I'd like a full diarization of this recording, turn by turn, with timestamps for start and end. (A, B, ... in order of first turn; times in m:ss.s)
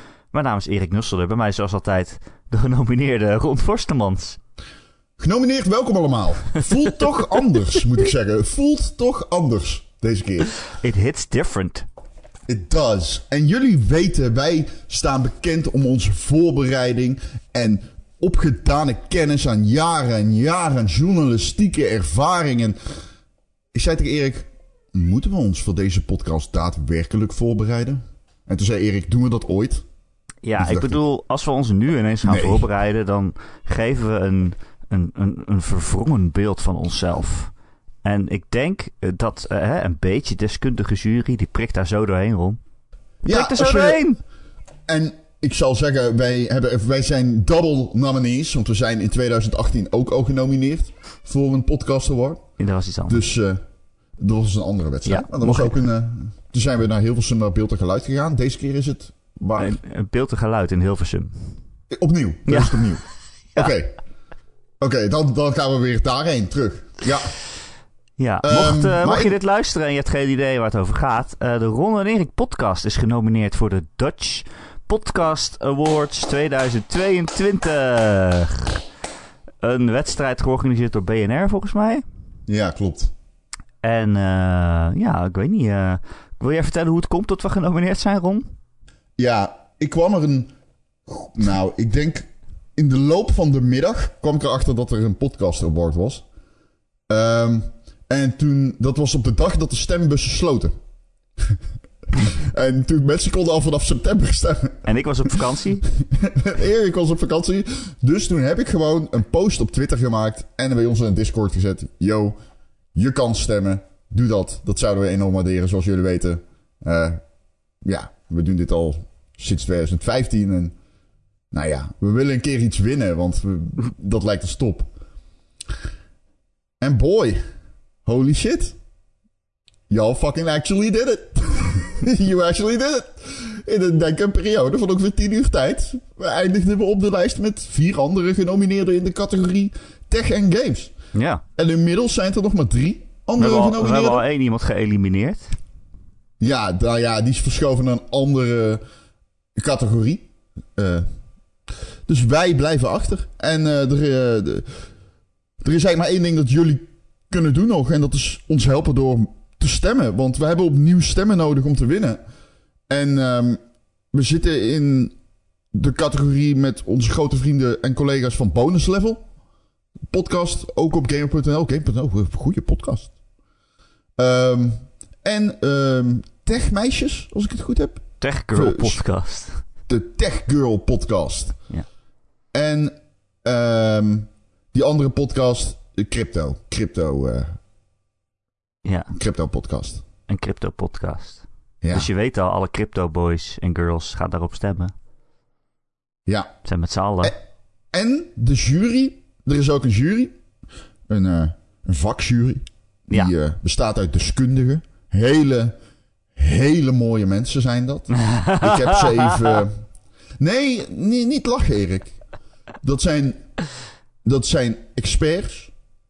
0:00.3-0:04.4 A
0:05.2-0:10.5 B
0:10.7-0:11.9 A
0:12.5-0:22.8 B
0:23.7-0:29.8 B
0:30.4-0:42.6 A
0:30.6-0:31.0 B
0:32.2-0:32.7 B
0:43.2-0:44.0 B
0:43.2-0:44.2 A
0:44.9-0:52.4 B
0:52.6-0:53.2 A
0:53.1-0:53.6 B
0:54.2-0:59.7 B
0:55.0-0:55.8 A
0:59.6-1:01.5 A
1:01.9-1:04.0 B
1:02.5-1:03.0 A
1:04.8-1:07.4 B
1:08.2-1:18.8 A
1:08.4-1:09.4 B
1:19.6-1:22.0 A
1:22.5-1:23.1 B
1:23.8-1:28.5 A
1:29.2-1:30.5 B
1:31.0-1:36.2 B
1:37.1-1:40.7 B
1:42.1-1:45.4 B
1:44.8-1:45.9 A
1:45.9-1:52.3 B
1:53.0-1:57.2 B
1:57.8-2:00.8 B
2:01.5-2:04.9 B
2:06.8-2:07.4 B
2:08.0-2:08.8 B
2:09.9-2:20.9 B
2:21.1-2:21.4 A
2:21.6-2:24.2 B
2:23.4-2:25.6 A
2:26.4-2:28.8 B
2:29.6-2:31.1 B
2:32.1-2:34.9 B
2:35.6-2:42.2 B
2:42.9-2:43.6 B
2:44.1-2:45.2 B
2:45.7-2:49.2 B
2:50.1-2:53.1 B
2:54.2-2:59.0 B
2:58.2-2:59.6 A
2:59.9-3:01.6 B
3:02.5-3:07.6 B
3:08.8-3:09.1 A
3:09.1-3:10.0 B
3:10.3-3:14.9 A
3:11.8-3:12.1 B
3:16.3-3:16.5 B
3:16.6-3:17.3 A
3:17.9-3:20.3 B
3:21.1-3:25.8 B
3:26.3-3:29.8 B
3:28.2-3:29.6 A
3:30.4-3:32.2 B
3:32.8-3:33.5 B
3:34.2-3:35.7 B